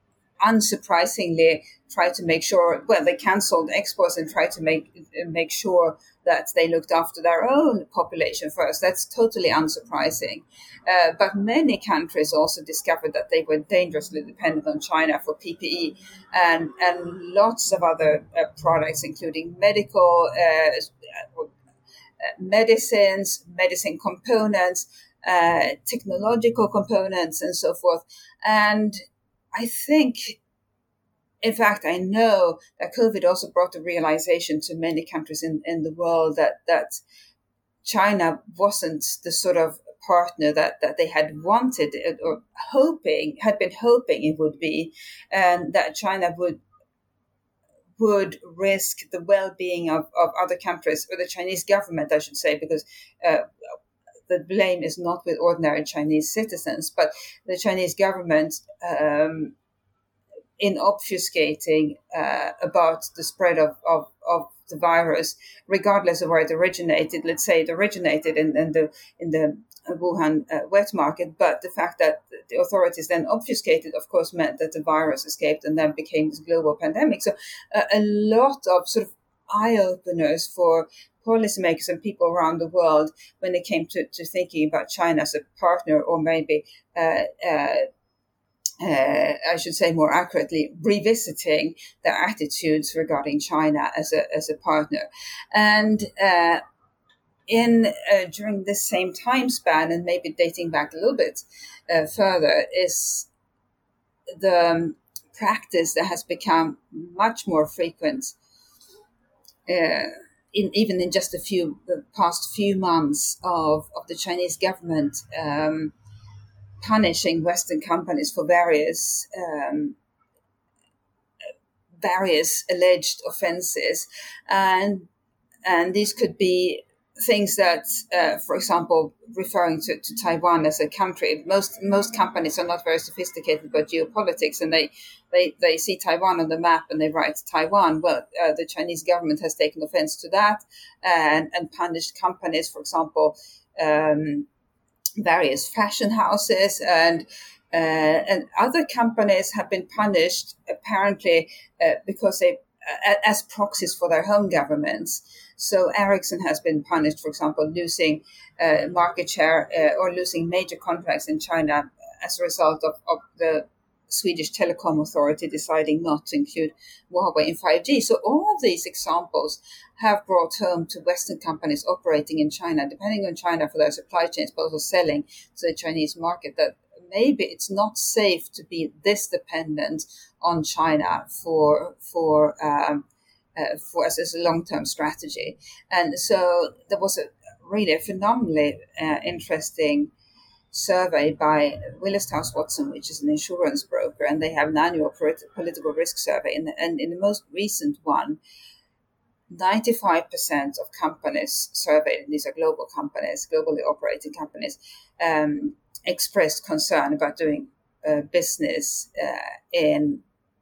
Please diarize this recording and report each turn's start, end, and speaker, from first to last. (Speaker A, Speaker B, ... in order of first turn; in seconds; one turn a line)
Speaker A: 0.4-21.5
Speaker A: 22.2-29.0
Speaker A: 29.5-30.4
Speaker A: 31.4-37.0
Speaker A: 37.8-46.6
Speaker A: 48.0-53.5
Speaker A: 54.3-59.5
Speaker A: 60.6-87.8
Speaker A: 88.8-96.6
Speaker A: 97.5-103.3
Speaker A: 104.4-108.3
Speaker A: 109.7-115.9
Speaker A: 116.8-120.0
Speaker A: 122.0-125.1
Speaker A: 125.7-144.5
Speaker A: 145.2-183.0
Speaker A: 183.6-190.1
Speaker A: 190.7-198.4
Speaker A: 199.5-210.2